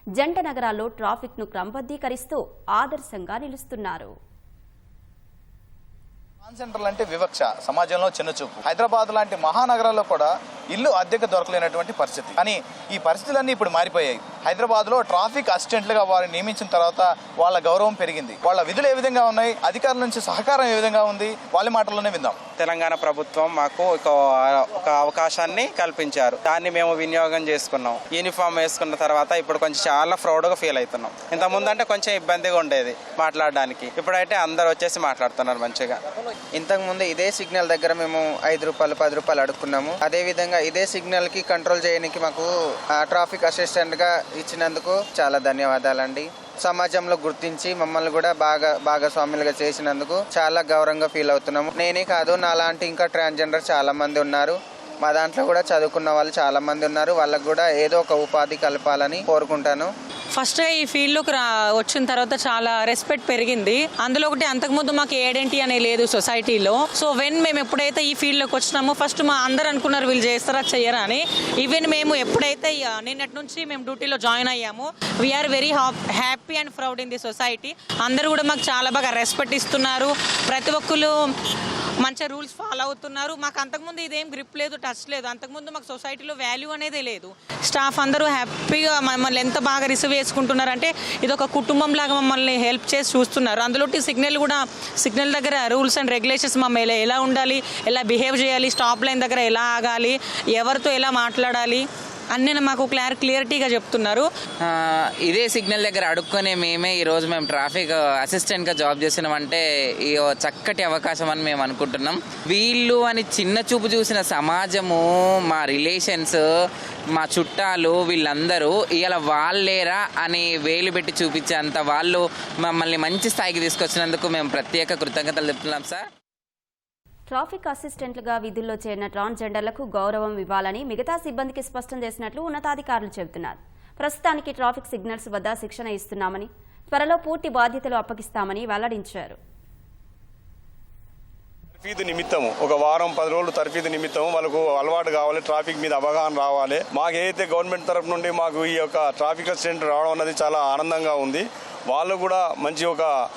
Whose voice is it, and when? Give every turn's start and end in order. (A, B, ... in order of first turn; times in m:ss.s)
0:00.2-0:04.1 A
0:06.4-0:22.4 B
0:22.6-0:36.0 C
0:36.6-0:59.9 D
1:00.3-1:21.1 E
1:22.0-1:44.3 E
1:44.6-1:56.4 F
1:57.1-2:06.1 F
2:07.3-2:19.4 A
2:21.8-2:33.1 G